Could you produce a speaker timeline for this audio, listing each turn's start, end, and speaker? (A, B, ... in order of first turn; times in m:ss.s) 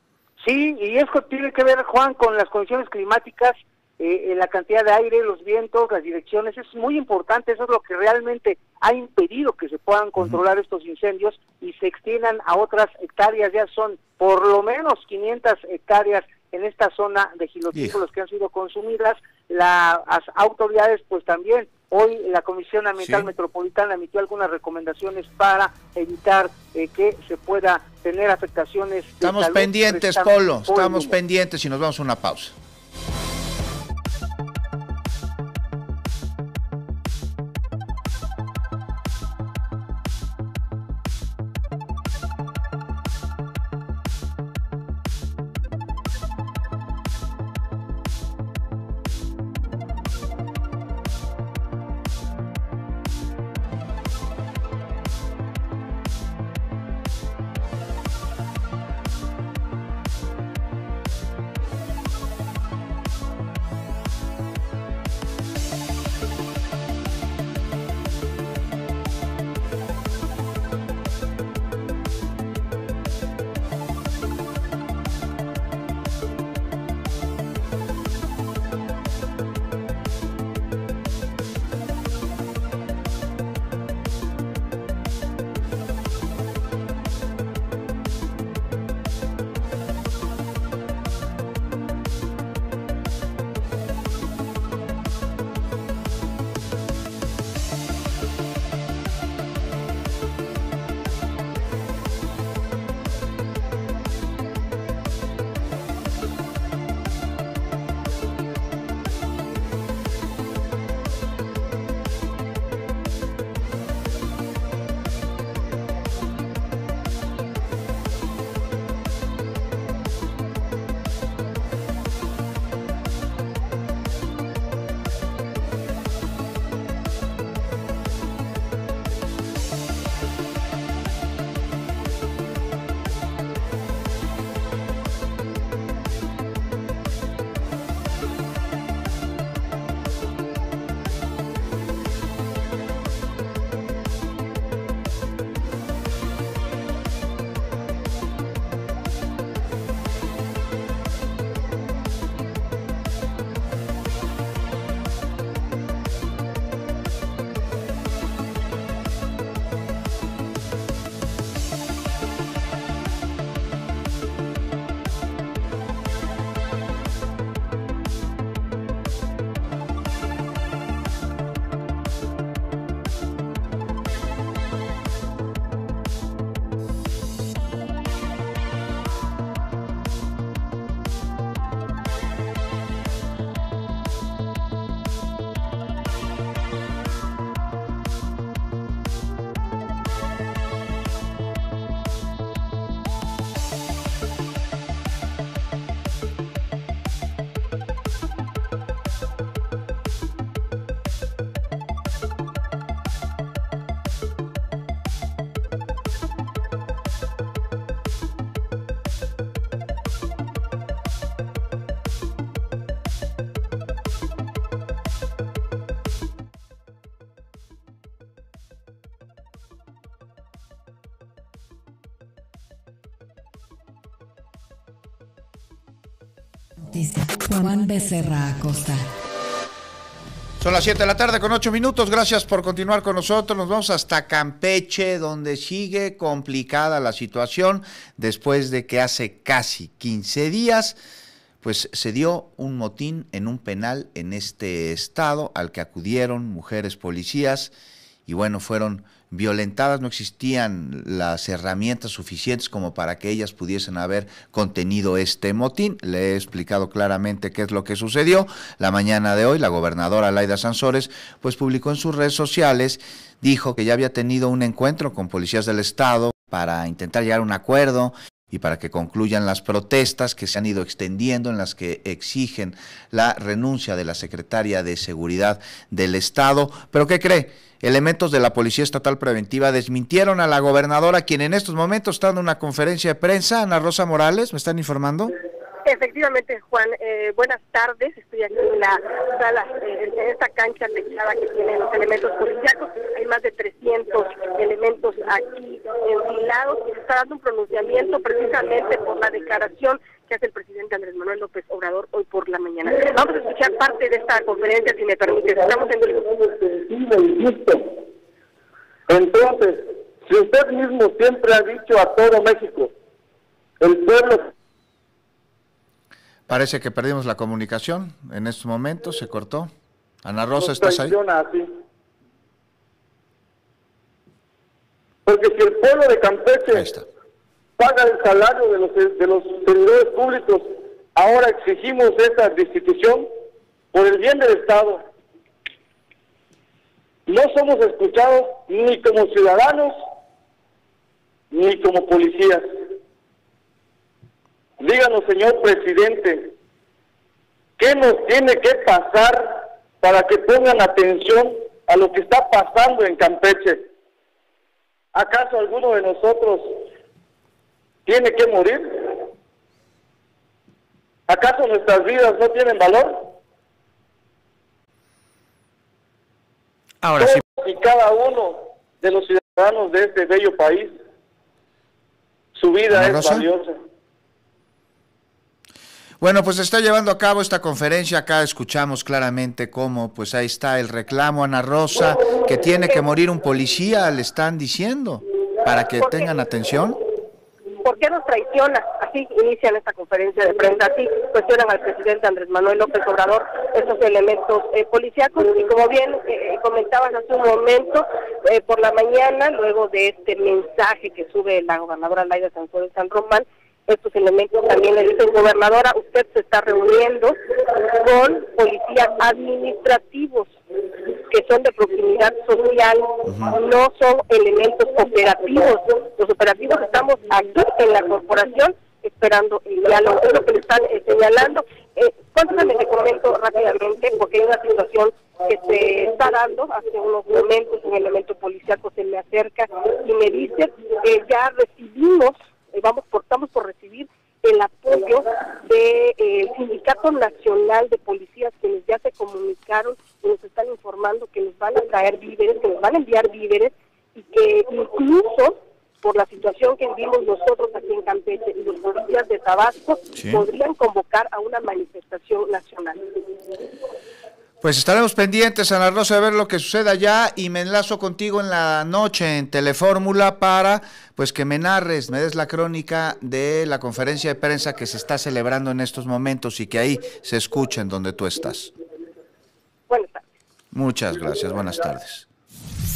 0:00.4-0:31.2 A
0:17.7-0:18.0 B
0:23.0-0:23.3 B
0:29.2-0:32.6 B
3:46.8-3:49.0 C
3:50.6-4:01.0 B
4:01.6-4:07.7 B
4:08.3-4:45.3 B
4:45.8-5:06.2 D
5:06.3-5:08.0 E
5:09.1-5:12.9 E
5:13.8-5:14.5 E
5:16.5-5:19.7 B
5:20.2-5:21.2 B
5:20.6-5:21.8 E
5:25.3-5:26.9 E
5:26.7-5:27.1 B
5:27.8-5:33.3 E
5:33.9-5:35.0 E
5:37.3-5:40.0 E
5:41.5-5:42.7 E
5:44.8-5:46.5 E
5:47.8-5:53.9 E
5:55.1-5:56.8 E
5:58.1-5:59.3 E
6:01.3-6:03.3 E
6:07.0-6:07.4 B
6:07.2-6:10.9 E
6:12.6-6:13.8 E
6:12.9-6:13.5 B
6:16.2-6:27.0 B
6:27.8-7:33.1 D
6:53.3-6:53.6 B
7:30.2-7:30.4 B
7:34.6-7:48.7 B
7:49.9-7:50.2 D
7:50.7-7:52.3 B